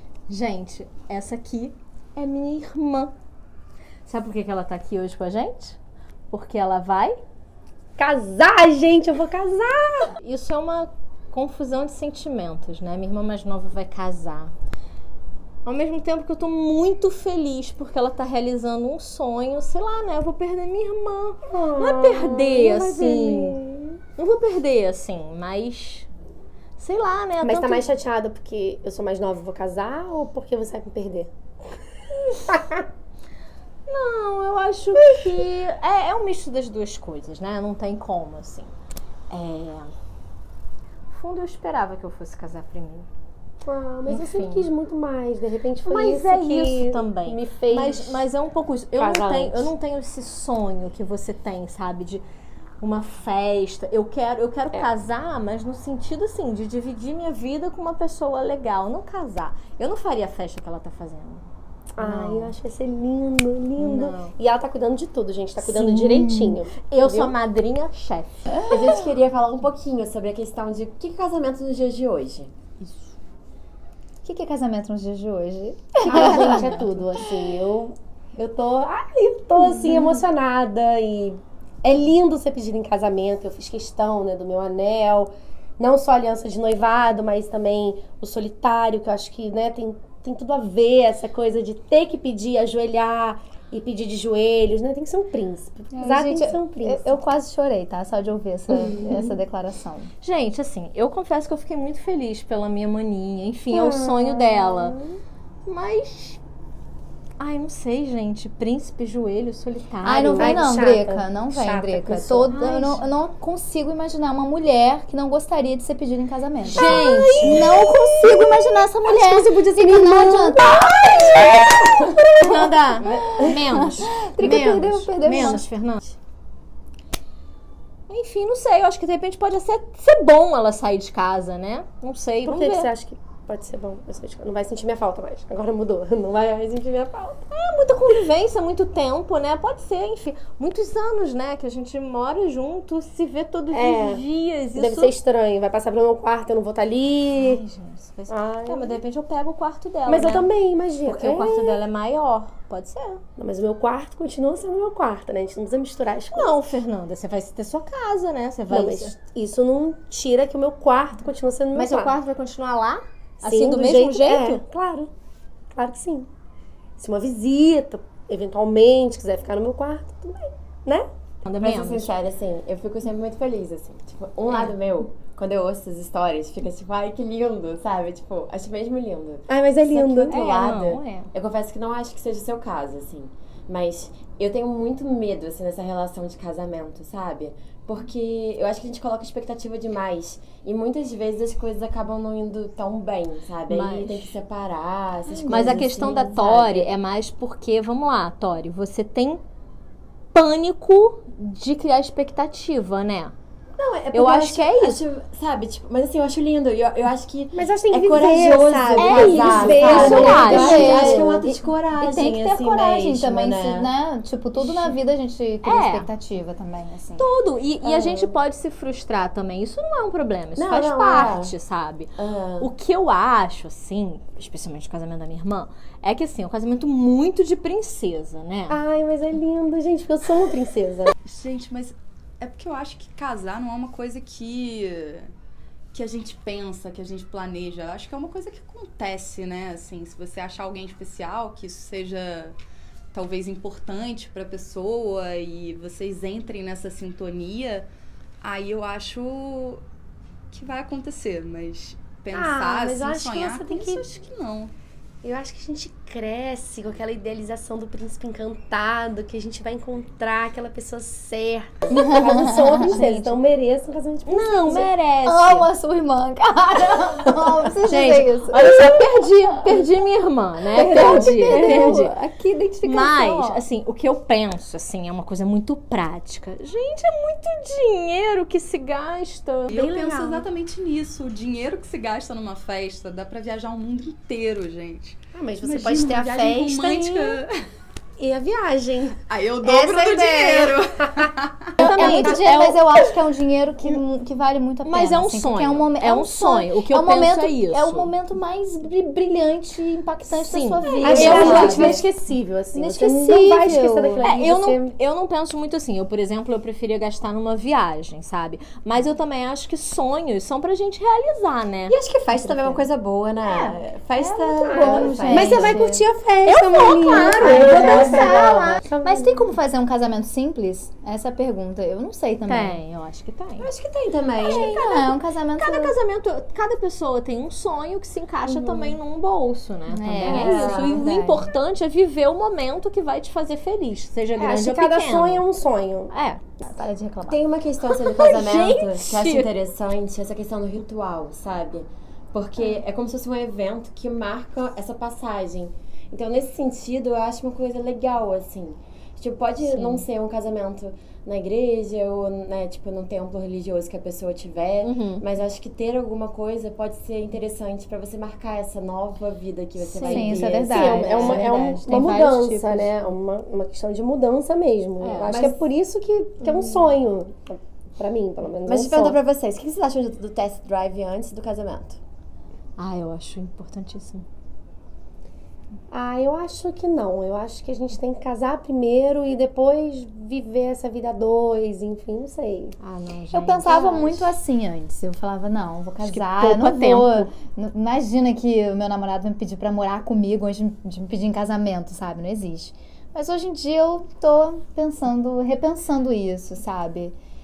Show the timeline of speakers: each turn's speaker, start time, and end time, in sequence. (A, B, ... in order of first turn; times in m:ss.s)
0:00.3-0:03.1 A
0:04.0-0:05.8 A
0:06.3-0:07.2 A
0:08.0-0:10.1 B
0:10.2-0:14.5 A
0:15.6-0:23.6 A
0:21.5-0:24.0 B
0:24.2-0:26.1 A
0:26.8-0:27.9 A
0:27.4-0:31.3 B
0:32.5-0:32.8 B
0:33.9-0:38.7 A
0:39.3-0:39.9 A
0:41.1-0:43.1 A
0:43.6-0:48.2 B
0:44.1-0:44.7 A
0:45.8-0:52.2 A
0:48.9-0:49.7 B
0:52.8-1:01.5 A
1:02.0-1:07.3 B
1:02.0-1:02.5 A
1:03.8-1:04.3 A
1:05.6-1:08.3 A
1:08.7-1:12.5 C
1:14.2-1:16.8 D
1:16.0-1:37.2 B
1:35.9-1:40.1 D
1:38.7-1:39.3 B
1:40.2-1:45.0 A
1:43.7-1:45.2 B
1:45.6-1:46.4 A
1:47.4-1:50.6 A
1:50.0-2:01.7 D
1:50.4-1:52.6 B
1:52.5-1:53.0 A
1:56.6-1:57.7 A
1:57.2-1:58.2 B
1:59.0-2:02.4 B
2:02.4-2:05.6 D
2:02.4-2:06.1 A
2:08.1-2:12.9 A
2:12.4-2:17.4 B
2:17.5-2:25.2 A
2:23.7-2:24.2 B
2:24.7-2:27.6 B
2:27.3-2:30.5 A
2:28.3-2:29.0 B
2:30.0-2:31.8 B
2:31.0-2:33.2 A
2:33.4-2:36.5 B
2:36.3-2:39.2 A
2:38.7-2:42.2 B
2:41.7-2:44.6 A
2:43.4-2:45.1 B
2:45.7-2:46.3 B
2:47.0-2:51.1 B
2:51.4-2:52.1 A
2:51.6-3:16.9 C
2:59.5-3:00.4 B
3:00.3-3:01.3 A
3:13.7-3:14.3 A
3:15.5-3:19.4 A
3:20.3-3:23.3 A
3:23.8-3:33.9 C
3:24.1-3:25.0 A
3:27.5-3:31.4 B
3:29.0-3:31.2 A
3:29.6-3:37.3 D
3:34.6-3:34.8 C
3:35.6-3:36.1 A
3:37.2-3:48.8 A
3:37.9-3:38.3 C
3:40.6-3:41.5 C
3:42.2-3:42.7 C
3:48.7-3:51.1 B
3:51.2-3:55.3 E
3:55.9-4:02.6 E
4:03.1-4:07.9 E
4:08.4-4:09.8 E
4:10.5-4:14.7 E
4:12.3-4:14.0 B
4:15.2-4:24.9 B
4:21.9-4:23.4 D
4:24.2-4:25.7 A
4:25.2-4:29.0 D
4:27.8-4:32.2 A
4:30.7-4:33.6 D
4:30.8-4:32.0 B
4:32.8-4:39.8 A
4:39.7-4:47.5 E
4:39.7-4:40.4 B
4:45.3-4:47.4 B
4:48.2-4:49.2 B
4:49.2-4:51.8 E
4:49.6-4:50.7 D
4:50.5-4:51.2 B
4:51.8-4:53.0 A
4:51.8-4:52.3 B
4:51.8-5:02.0 D
4:54.8-4:58.1 A
5:00.3-5:02.0 A
5:01.0-5:04.9 B
5:01.2-5:01.9 C
5:02.7-5:04.3 D
5:04.2-5:12.0 A
5:11.9-5:15.8 C
5:12.4-5:12.8 B
5:13.5-5:16.0 D
5:14.7-5:19.5 B
5:16.4-5:18.8 A
5:17.1-5:22.8 D
5:17.5-5:18.4 C
5:22.4-5:23.7 A
5:23.6-5:24.7 C
5:24.4-5:35.4 A
5:24.5-5:25.9 D
5:29.9-5:31.5 D
5:30.2-5:31.0 C
5:34.4-5:36.1 B
5:36.1-5:36.4 A
5:36.6-5:37.4 D
5:37.3-6:01.4 C
5:37.9-5:39.5 A
5:49.6-5:50.0 A
5:54.8-5:55.2 A
5:59.8-6:00.4 A
6:00.0-6:02.9 D
6:00.5-6:09.2 B
6:05.0-6:05.5 A
6:05.3-6:05.5 C
6:08.6-6:12.0 C
6:12.8-6:14.2 A
6:15.9-6:22.8 B
6:22.8-6:24.1 A
6:23.3-6:37.1 D
6:24.0-6:24.2 B
6:26.0-6:27.3 A